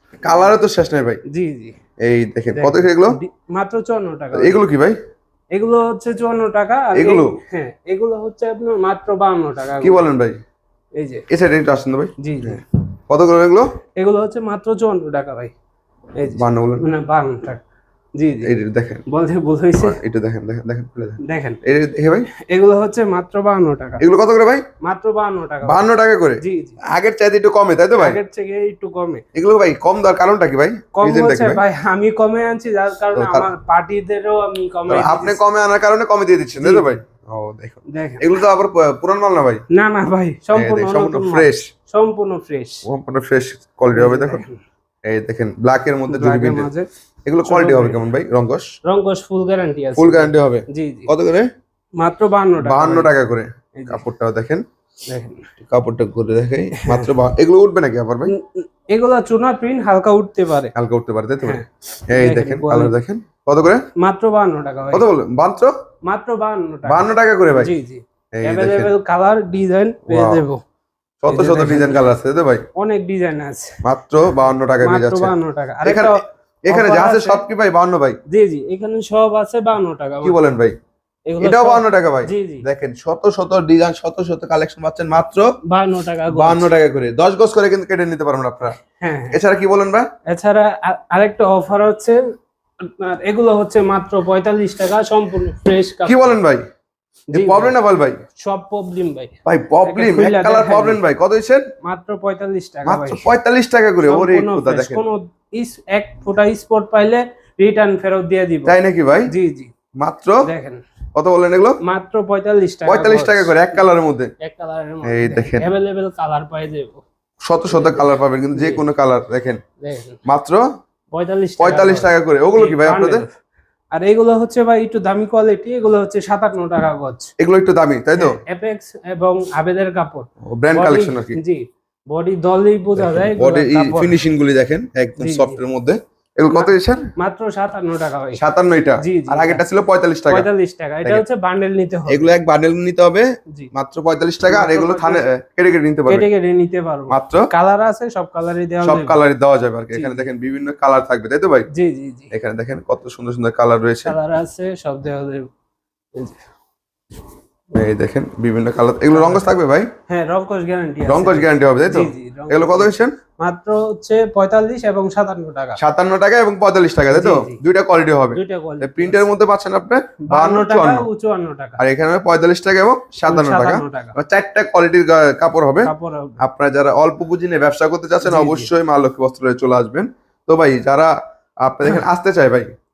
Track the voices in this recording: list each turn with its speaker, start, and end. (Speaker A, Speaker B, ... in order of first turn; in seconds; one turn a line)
Speaker A: 0.2-1.2
Speaker B: 1.3-1.7
Speaker A: 2.0-3.2
Speaker B: 2.5-4.6
Speaker A: 4.3-5.0
Speaker B: 5.5-10.0
Speaker A: 6.9-7.3
Speaker A: 9.8-10.4
Speaker B: 10.9-11.2
Speaker A: 11.3-13.7
Speaker B: 12.2-12.6
Speaker B: 14.0-15.5
Speaker B: 16.2-17.6
Speaker A: 16.3-16.8
Speaker B: 18.2-18.5
Speaker A: 18.4-19.0
Speaker B: 19.1-20.0
Speaker A: 19.8-22.3
Speaker B: 21.2-21.6
Speaker B: 22.3-24.0
Speaker A: 24.0-24.6
Speaker B: 24.8-25.8
Speaker A: 25.6-28.2
Speaker B: 26.4-26.8
Speaker B: 28.0-29.2
Speaker A: 29.3-31.6
Speaker B: 30.9-35.4
Speaker A: 33.1-33.5
Speaker A: 34.9-39.6
Speaker B: 36.5-37.0
Speaker B: 37.9-38.2
Speaker B: 39.7-42.8
Speaker A: 40.5-41.7
Speaker A: 42.9-44.4
Speaker B: 43.9-44.6
Speaker A: 45.0-46.7
Speaker B: 46.1-46.9
Speaker A: 47.2-48.7
Speaker B: 47.4-48.0
Speaker B: 48.9-51.1
Speaker A: 49.9-51.5
Speaker B: 52.0-53.1
Speaker A: 52.6-54.6
Speaker B: 53.8-54.0
Speaker B: 55.1-55.5
Speaker A: 55.6-58.3
Speaker B: 56.8-57.1
Speaker B: 58.3-60.7
Speaker A: 60.7-63.8
Speaker B: 61.4-62.9
Speaker B: 64.0-65.1
Speaker A: 64.9-65.7
Speaker B: 66.0-70.6
Speaker A: 66.8-67.7
Speaker A: 68.3-68.9
Speaker A: 70.1-70.4
Speaker A: 71.2-72.6
Speaker B: 71.3-72.1
Speaker B: 72.8-73.8
Speaker A: 73.8-78.2
Speaker B: 74.8-77.4
Speaker B: 78.3-80.4
Speaker A: 80.2-80.7
Speaker B: 81.3-82.6
Speaker A: 81.4-85.5
Speaker B: 85.6-86.7
Speaker A: 86.3-88.8
Speaker B: 89.0-89.4
Speaker A: 89.3-90.1
Speaker B: 90.3-92.2
Speaker B: 92.8-96.3
Speaker A: 96.0-96.6
Speaker B: 97.3-97.8
Speaker A: 97.3-98.2
Speaker B: 98.4-101.0
Speaker A: 99.5-101.7
Speaker B: 101.8-103.3
Speaker A: 102.8-105.0
Speaker B: 104.0-108.8
Speaker A: 108.6-109.3
Speaker B: 109.3-109.7
Speaker A: 110.0-110.4
Speaker B: 110.4-110.8
Speaker A: 111.2-111.8
Speaker B: 111.8-113.5
Speaker A: 112.8-114.3
Speaker B: 114.4-117.0
Speaker A: 115.0-115.7
Speaker A: 117.5-119.6
Speaker B: 117.7-118.8
Speaker B: 119.8-120.2
Speaker A: 120.2-120.6
Speaker B: 121.1-123.3
Speaker A: 121.6-123.2
Speaker B: 123.9-127.3
Speaker A: 127.4-128.4
Speaker B: 128.2-134.2
Speaker A: 130.5-131.4
Speaker A: 132.9-137.1
Speaker B: 135.2-135.6
Speaker B: 136.5-138.4
Speaker A: 138.4-140.5
Speaker B: 139.0-139.6
Speaker B: 140.3-142.3
Speaker A: 142.1-146.3
Speaker B: 144.5-145.2
Speaker B: 146.1-149.2
Speaker A: 147.1-147.5
Speaker A: 148.8-151.7
Speaker B: 149.9-150.3
Speaker B: 151.7-152.3
Speaker A: 152.3-154.2
Speaker B: 154.0-155.5
Speaker A: 157.7-159.9
Speaker B: 159.1-159.4
Speaker B: 160.1-165.8
Speaker A: 161.1-163.1
Speaker A: 165.8-171.1
Speaker B: 167.1-167.6
Speaker B: 168.3-169.2
Speaker B: 170.2-171.8
Speaker A: 171.8-181.1
Speaker B: 173.3-174.2
Speaker B: 175.8-176.4
Speaker B: 178.2-178.7
Speaker A: 181.6-182.7